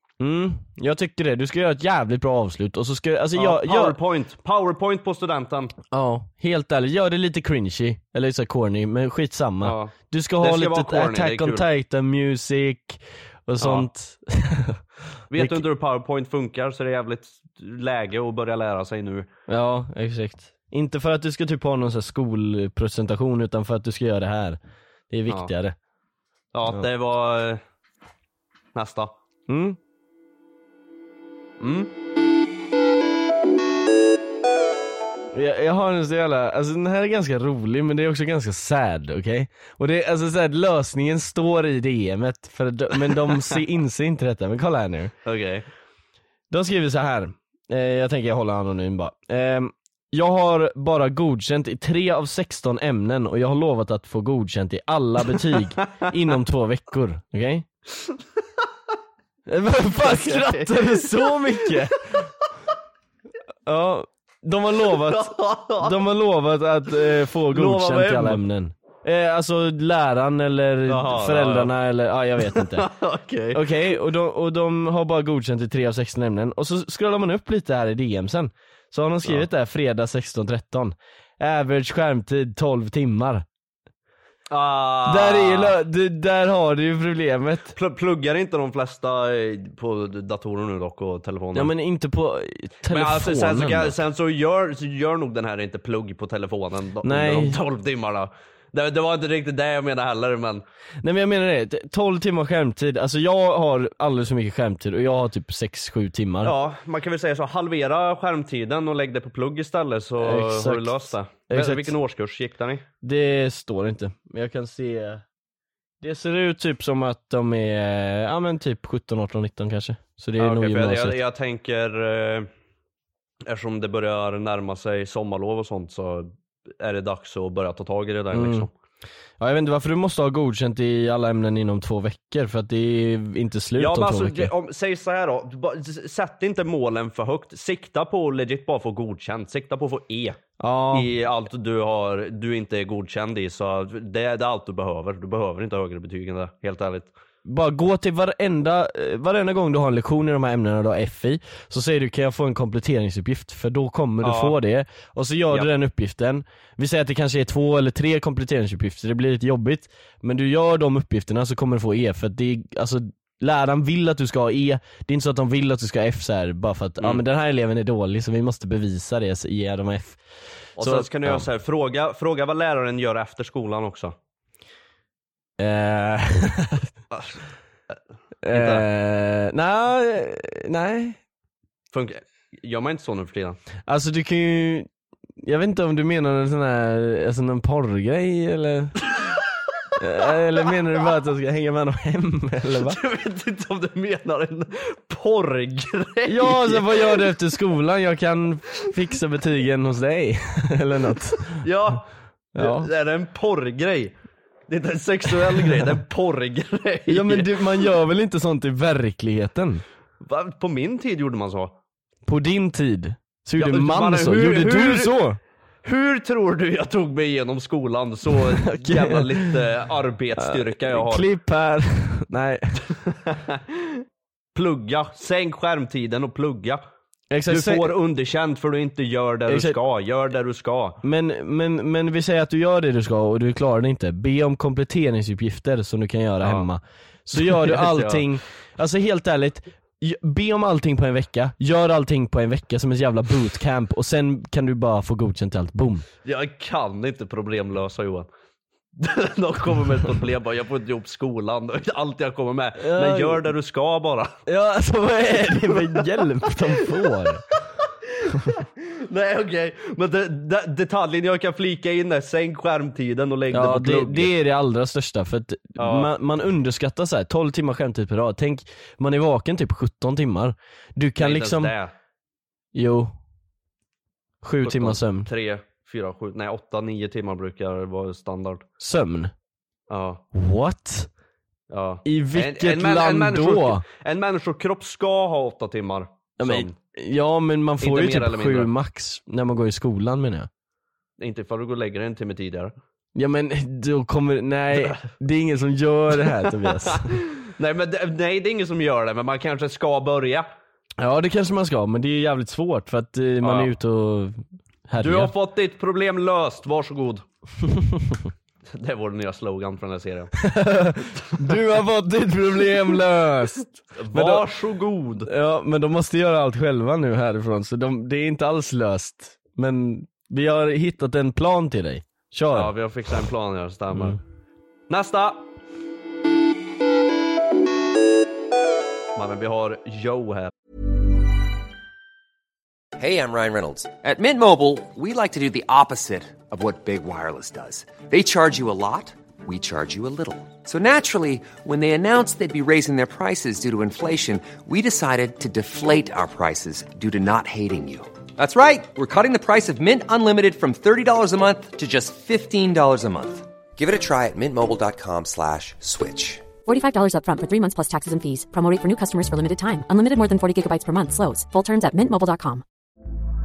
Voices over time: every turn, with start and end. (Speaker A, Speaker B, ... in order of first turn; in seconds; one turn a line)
Speaker A: 0.2-4.0
Speaker B: 3.4-5.7
Speaker A: 5.9-14.8
Speaker B: 9.6-11.6
Speaker B: 13.6-13.9
Speaker B: 15.3-19.3
Speaker A: 15.3-15.6
Speaker A: 19.5-24.6
Speaker A: 25.1-25.8
Speaker B: 26.5-27.6
Speaker B: 28.8-29.1
Speaker A: 29.5-29.8
Speaker B: 31.6-31.9
Speaker A: 35.3-45.1
Speaker B: 43.3-43.6
Speaker B: 45.2-45.7
Speaker A: 46.5-57.7
Speaker A: 59.5-62.3
Speaker B: 60.0-61.4
Speaker A: 63.7-72.9
Speaker B: 64.9-66.0
Speaker B: 67.5-68.4
Speaker B: 70.9-71.7
Speaker B: 72.5-73.7
Speaker A: 73.5-83.5
Speaker B: 84.5-85.8
Speaker A: 85.1-87.7
Speaker B: 87.7-91.7
Speaker A: 91.5-94.0
Speaker B: 92.9-100.6
Speaker A: 97.0-97.6
Speaker A: 101.0-106.5
Speaker B: 106.4-112.8
Speaker A: 110.2-111.9
Speaker A: 113.0-115.2
Speaker A: 116.0-121.2
Speaker B: 120.4-122.5
Speaker B: 123.5-128.7
Speaker A: 128.3-128.7
Speaker A: 129.4-134.5
Speaker B: 133.8-140.4
Speaker A: 140.6-141.1
Speaker B: 140.9-147.1
Speaker A: 147.4-170.2
Speaker B: 154.2-154.6
Speaker A: 170.8-171.5
Speaker B: 170.8-174.2
Speaker A: 175.6-176.9
Speaker B: 177.1-177.4
Speaker A: 178.4-181.2
Speaker B: 178.5-178.9
Speaker B: 181.9-183.6
Speaker A: 183.9-184.9
Speaker A: 185.4-189.0
Speaker A: 190.0-193.0
Speaker B: 192.8-197.3
Speaker A: 196.3-201.6
Speaker B: 201.6-202.1
Speaker A: 202.6-202.9
Speaker B: 202.6-204.1
Speaker B: 204.7-207.6
Speaker A: 207.1-209.8
Speaker B: 210.2-211.7
Speaker A: 212.3-215.4
Speaker B: 213.6-215.2
Speaker B: 215.8-221.3
Speaker A: 218.6-219.5
Speaker A: 220.4-222.8
Speaker B: 222.9-224.0
Speaker B: 224.6-226.8
Speaker A: 227.3-227.9
Speaker B: 227.5-231.0
Speaker A: 229.5-229.8
Speaker A: 231.0-246.1
Speaker B: 236.4-236.7
Speaker B: 237.3-238.3
Speaker B: 246.2-248.3
Speaker B: 249.0-254.3
Speaker A: 252.8-253.5
Speaker A: 254.5-257.4
Speaker B: 255.7-256.1
Speaker B: 258.1-264.3
Speaker A: 263.5-271.7
Speaker B: 265.8-266.1
Speaker B: 271.2-271.9
Speaker A: 272.7-273.1
Speaker A: 274.4-275.3
Speaker B: 274.6-278.6
Speaker A: 278.8-279.3
Speaker B: 279.9-280.2
Speaker A: 280.3-281.1
Speaker B: 281.7-286.8
Speaker A: 282.1-283.8
Speaker A: 286.4-290.5
Speaker B: 287.8-288.7
Speaker B: 291.2-292.7
Speaker A: 293.2-297.2
Speaker B: 294.8-295.0
Speaker B: 296.6-300.5
Speaker A: 301.0-305.3
Speaker B: 303.4-303.7
Speaker B: 305.0-307.2
Speaker A: 307.6-308.2
Speaker B: 308.7-310.3
Speaker A: 310.4-314.4
Speaker B: 314.0-315.3
Speaker A: 315.3-322.7
Speaker B: 322.5-324.2
Speaker B: 324.9-325.4
Speaker B: 329.2-330.5
Speaker C: 333.0-356.4
Speaker D: 356.7-362.6